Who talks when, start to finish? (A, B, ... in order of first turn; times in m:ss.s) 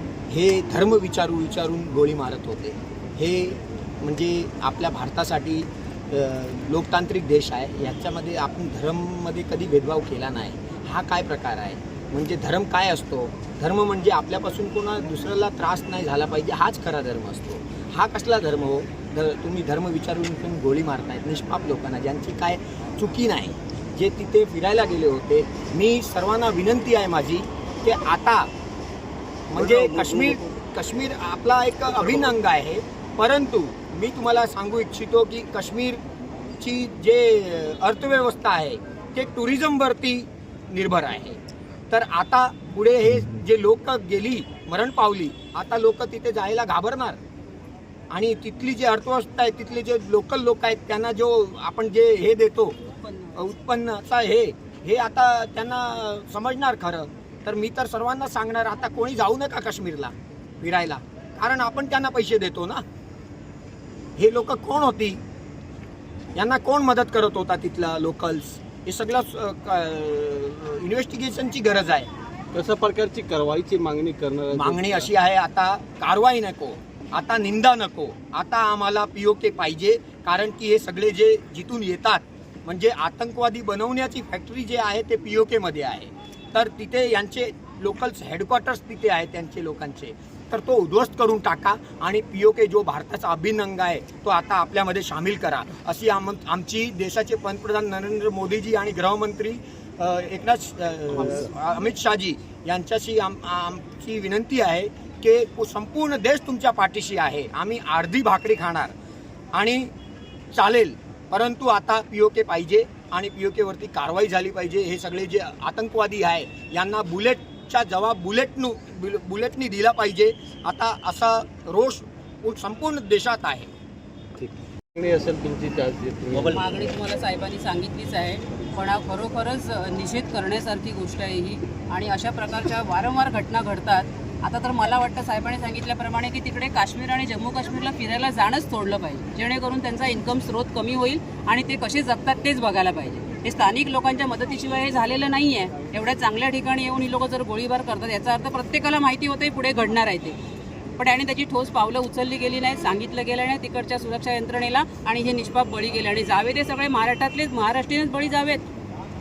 0:00.3-0:28.5 A
0:29.5-0:36.0 A
0:29.6-0:30.4 B
0:36.6-0:47.2 A
0:48.1-0:52.8 A
0:52.9-0:53.4 C
0:53.4-1:02.8 A
1:04.2-1:05.2 A
1:06.4-1:12.1 A
1:12.5-1:15.1 B
1:14.5-1:48.9 A
1:49.5-1:49.9 A
1:50.5-2:03.7 A
2:04.4-2:06.6 B
2:06.5-2:30.4 C
2:31.0-2:38.6 C